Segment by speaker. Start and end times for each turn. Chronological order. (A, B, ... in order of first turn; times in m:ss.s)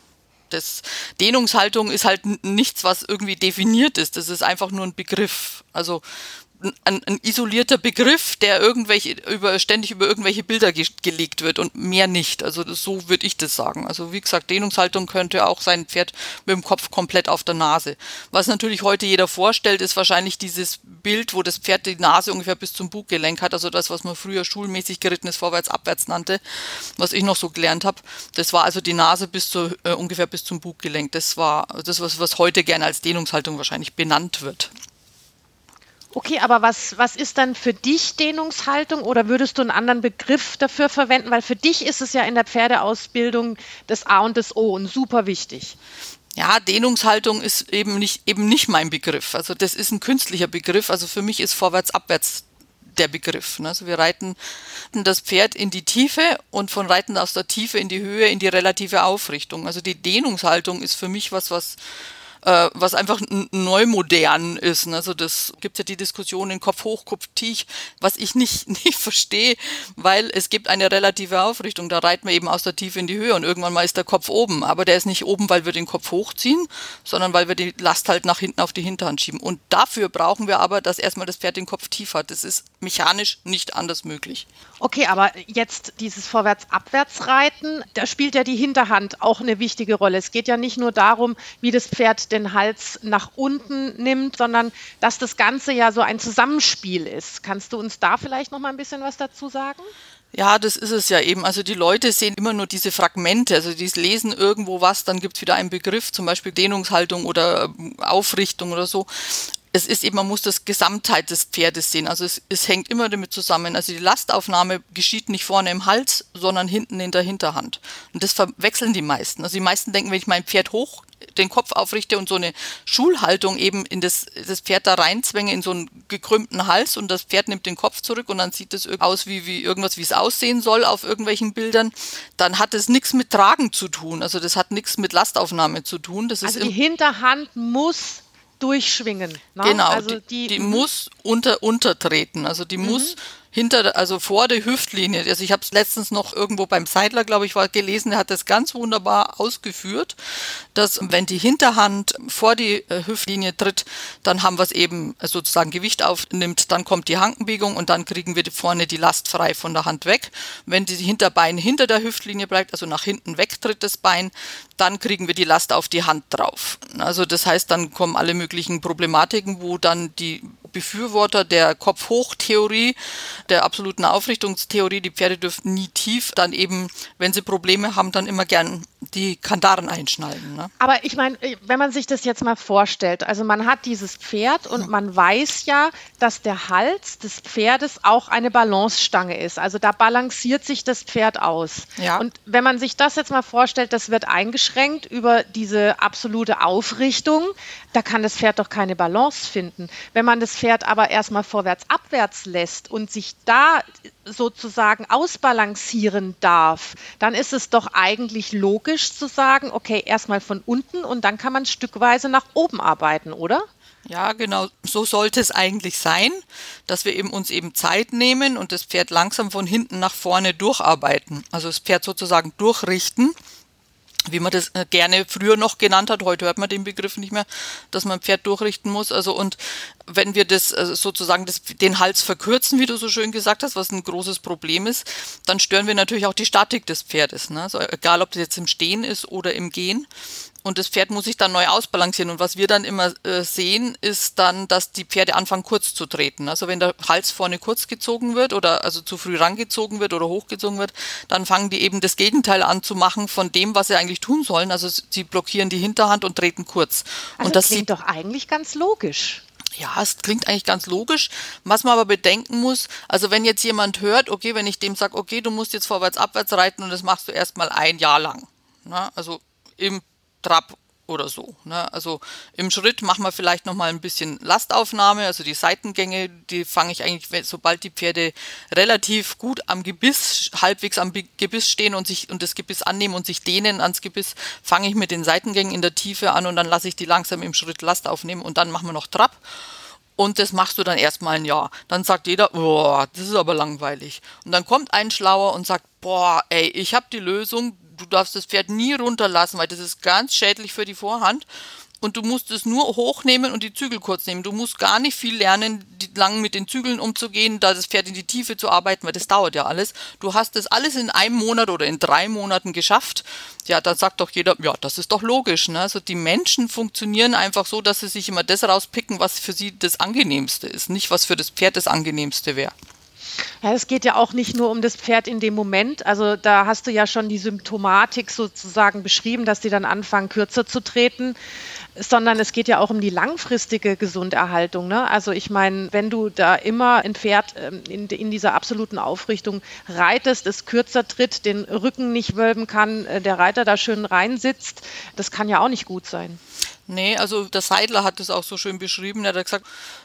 0:00.5-0:34.7 A
0:36.1-0:45.8 B
0:46.4-1:01.8 A
1:02.4-1:24.4 A
1:24.8-1:39.9 B
1:40.3-2:16.7 A
2:16.4-2:20.8 B
2:19.6-3:00.7 A
2:22.8-2:23.1 B
3:00.8-3:33.7 B
3:12.0-3:12.2 A
3:34.0-3:43.3 A
3:44.3-4:00.1 A
4:00.6-4:17.8 A
4:17.4-4:19.4 B
4:19.8-4:49.4 A
4:50.2-5:01.5 A
5:02.0-5:22.7 A
5:23.6-5:31.4 B
5:32.0-5:46.4 B
5:46.9-5:49.6 A